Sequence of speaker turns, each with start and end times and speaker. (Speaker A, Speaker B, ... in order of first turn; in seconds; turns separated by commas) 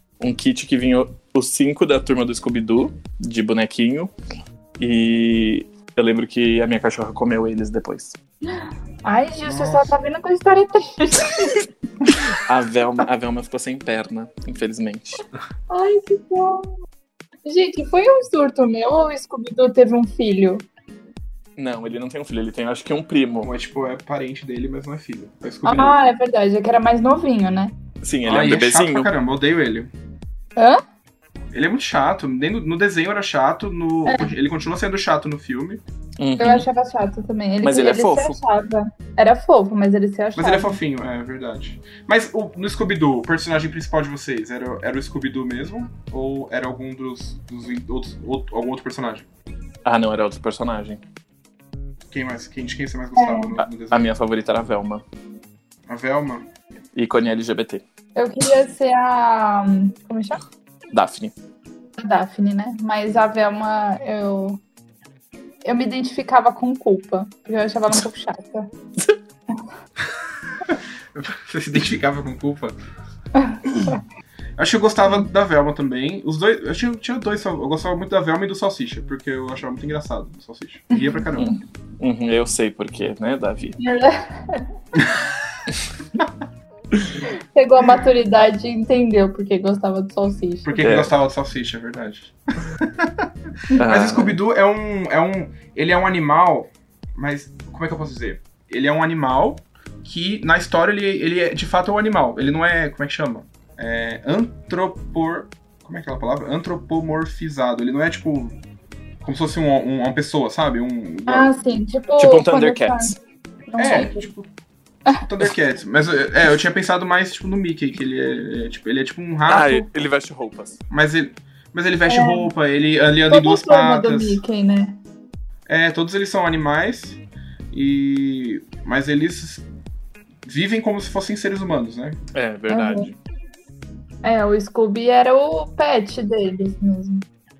Speaker A: 0.2-4.1, Speaker A: 4.8-8.2, Speaker B: 9.0-11.6, Speaker C: 9.4-9.9, Speaker A: 12.3-15.2, Speaker B: 15.7-16.7, Speaker B: 17.4-20.6, Speaker A: 21.6-23.5, Speaker C: 23.4-25.9, Speaker B: 25.6-27.8, Speaker A: 28.0-29.1, Speaker C: 28.2-29.9, Speaker C: 31.5-35.8, Speaker B: 34.0-34.3, Speaker A: 36.2-36.7, Speaker B: 36.4-40.8, Speaker A: 37.6-38.4, Speaker C: 40.4-49.3, Speaker A: 49.8-51.0, Speaker C: 52.1-54.1, Speaker B: 53.1-53.6, Speaker A: 53.6-55.0, Speaker C: 55.9-56.4, Speaker A: 56.9-57.8, Speaker B: 58.1-60.4, Speaker A: 60.9-61.3, Speaker B: 62.0-64.6, Speaker B: 65.6-68.7, Speaker C: 70.7-72.8, Speaker B: 73.4-74.0, Speaker C: 74.6-81.6, Speaker B: 80.9-81.2, Speaker A: 81.3-83.8, Speaker B: 83.8-84.6, Speaker B: 87.5-90.8, Speaker C: 90.6-108.6, Speaker A: 90.8-91.1, Speaker A: 93.8-94.4, Speaker C: 109.2-111.5, Speaker B: 111.3-113.2, Speaker A: 112.2-113.2, Speaker B: 113.7-114.3, Speaker C: 113.8-114.5, Speaker C: 115.2-119.8, Speaker A: 119.5-120.8, Speaker C: 120.9-124.4, Speaker B: 122.0-122.5, Speaker B: 123.3-125.0, Speaker C: 125.7-127.2, Speaker C: 127.7-129.6, Speaker C: 130.4-132.2, Speaker A: 132.3-133.1, Speaker B: 132.7-133.1, Speaker B: 134.2-137.2